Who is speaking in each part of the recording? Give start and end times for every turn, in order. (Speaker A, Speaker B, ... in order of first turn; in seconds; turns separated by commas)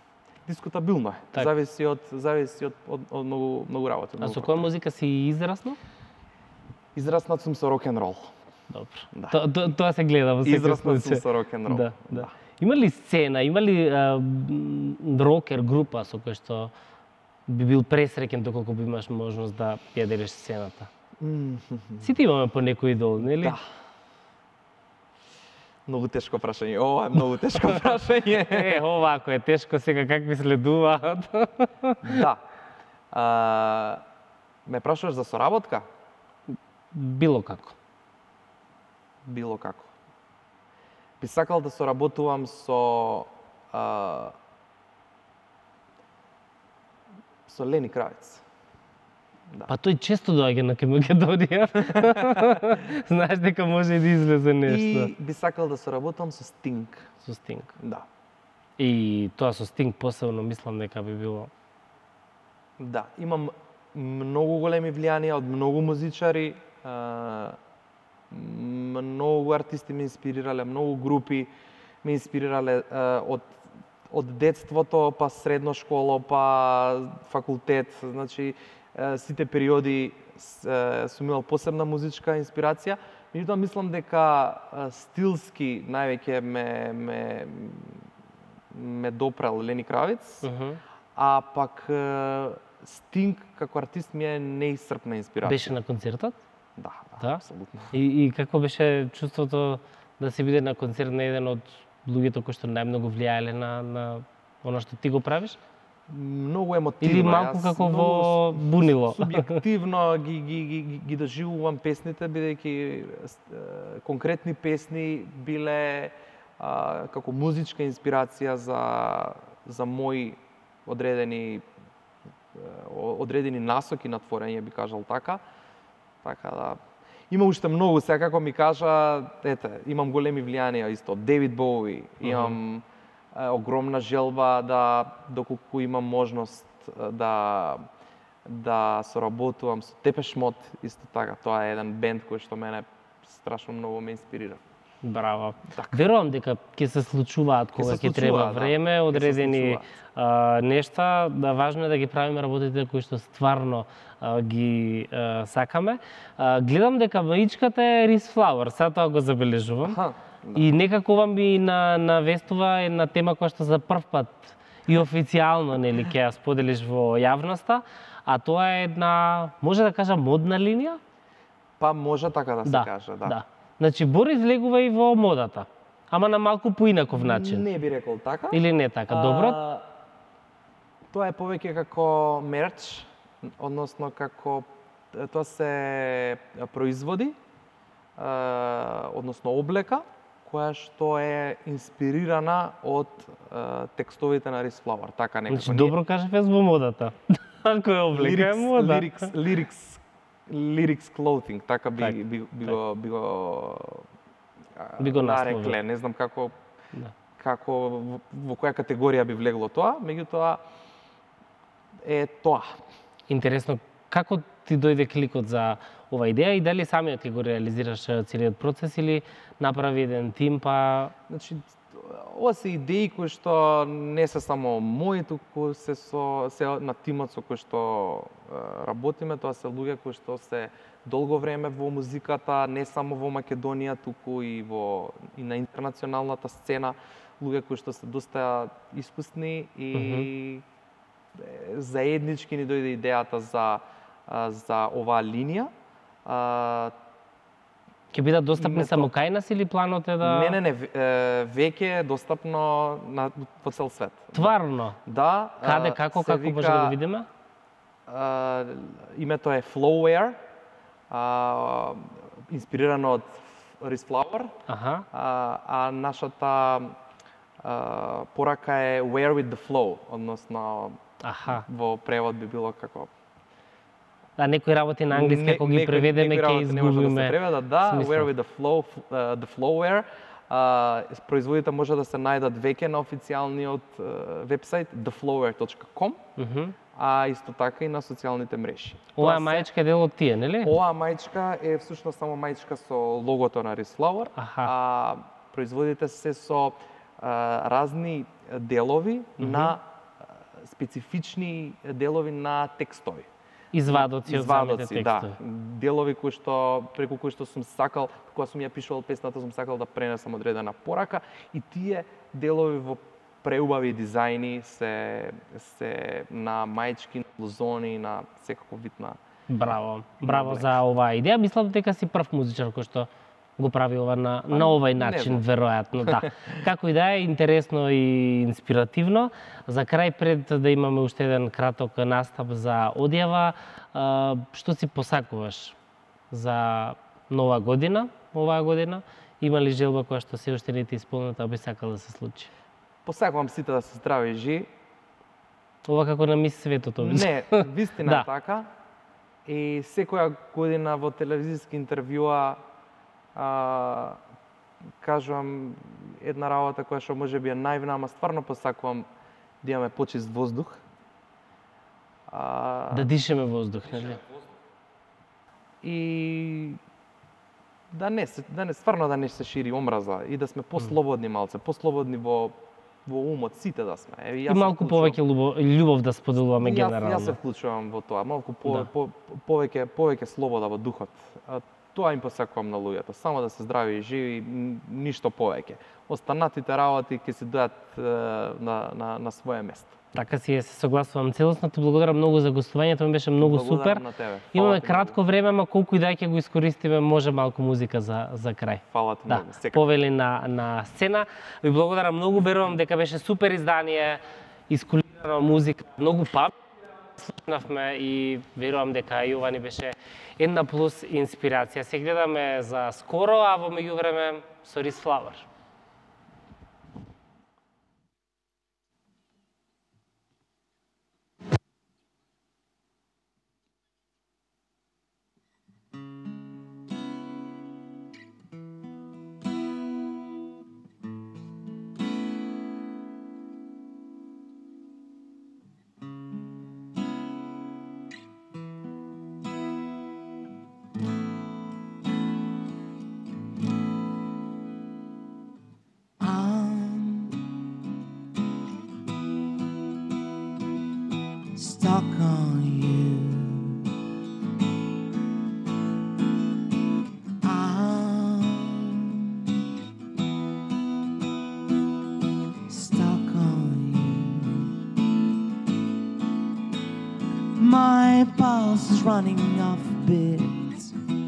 Speaker A: 0.5-4.7, Speaker B: 4.2-5.8, Speaker A: 7.0-8.3, Speaker B: 8.7-16.7, Speaker A: 9.1-9.4, Speaker A: 10.4-12.3, Speaker B: 17.5-20.9, Speaker A: 21.2-22.1, Speaker B: 22.0-23.6, Speaker A: 23.3-23.6, Speaker A: 25.9-28.8, Speaker B: 28.4-32.2, Speaker A: 32.0-32.4, Speaker A: 33.1-34.0, Speaker A: 34.7-35.9, Speaker B: 36.9-37.8, Speaker A: 39.3-39.9, Speaker A: 41.2-44.4, Speaker A: 47.5-48.4, Speaker B: 49.7-55.1, Speaker A: 51.8-52.8, Speaker A: 54.7-57.1, Speaker B: 57.2-57.7, Speaker A: 57.8-58.1, Speaker B: 58.8-61.5, Speaker A: 62.8-67.6, Speaker A: 68.3-71.5, Speaker A: 72.0-88.1, Speaker A: 88.7-90.5, Speaker B: 90.4-90.8, Speaker A: 91.2-95.7, Speaker B: 95.4-96.4, Speaker A: 96.8-97.9, Speaker B: 97.9-105.6, Speaker A: 106.1-121.7, Speaker B: 107.0-109.6, Speaker A: 122.5-125.4, Speaker A: 126.2-137.9, Speaker B: 132.2-132.6, Speaker A: 138.4-144.6, Speaker B: 145.0-160.0, Speaker A: 145.7-146.0, Speaker A: 147.8-149.9, Speaker A: 159.8-160.7, Speaker B: 160.6-171.0, Speaker A: 171.8-173.4, Speaker B: 172.7-177.7, Speaker A: 177.1-179.9, Speaker B: 178.5-179.6, Speaker A: 181.1-187.4, Speaker A: 188.2-195.9, Speaker B: 195.5-199.3, Speaker A: 198.1-204.1, Speaker A: 204.8-206.6, Speaker B: 205.0-205.8, Speaker A: 207.4-210.6, Speaker A: 212.0-212.8, Speaker B: 213.3-221.1, Speaker A: 221.3-240.7, Speaker B: 239.9-240.3, Speaker A: 241.3-245.7, Speaker A: 246.2-246.9, Speaker B: 248.1-250.6, Speaker A: 248.6-249.1, Speaker A: 250.2-257.0, Speaker B: 254.3-255.0, Speaker B: 255.6-257.3, Speaker A: 258.1-260.4, Speaker A: 261.1-264.6, Speaker B: 264.7-265.1, Speaker A: 265.1-267.0, Speaker A: 267.6-273.1, Speaker B: 271.2-271.7, Speaker B: 274.4-278.3, Speaker A: 275.1-286.2, Speaker B: 286.4-286.8, Speaker A: 286.9-289.7, Speaker B: 289.2-290.8, Speaker A: 290.6-303.3, Speaker B: 294.4-294.7, Speaker B: 299.4-299.8, Speaker B: 303.7-305.4, Speaker A: 303.9-319.2, Speaker B: 319.5-335.8, Speaker A: 320.2-320.8, Speaker A: 324.5-325.4, Speaker A: 326.0-326.5, Speaker B: 336.3-342.5, Speaker A: 343.1-344.7, Speaker B: 345.9-348.3, Speaker A: 347.0-348.7, Speaker A: 349.4-352.6, Speaker A: 353.4-354.2, Speaker A: 355.0-359.1, Speaker A: 359.6-360.8, Speaker A: 362.3-363.1, Speaker B: 362.9-364.2, Speaker A: 365.8-366.8, Speaker A: 367.9-375.2, Speaker B: 374.5-377.4, Speaker A: 376.6-390.0, Speaker B: 390.1-394.0, Speaker A: 393.4-395.2, Speaker B: 394.5-415.5, Speaker A: 398.9-399.9, Speaker C: 446.2-447.5, Speaker C: 451.6-453.9, Speaker C: 457.4-459.5, Speaker C: 462.7-464.8, Speaker C: 467.6-471.0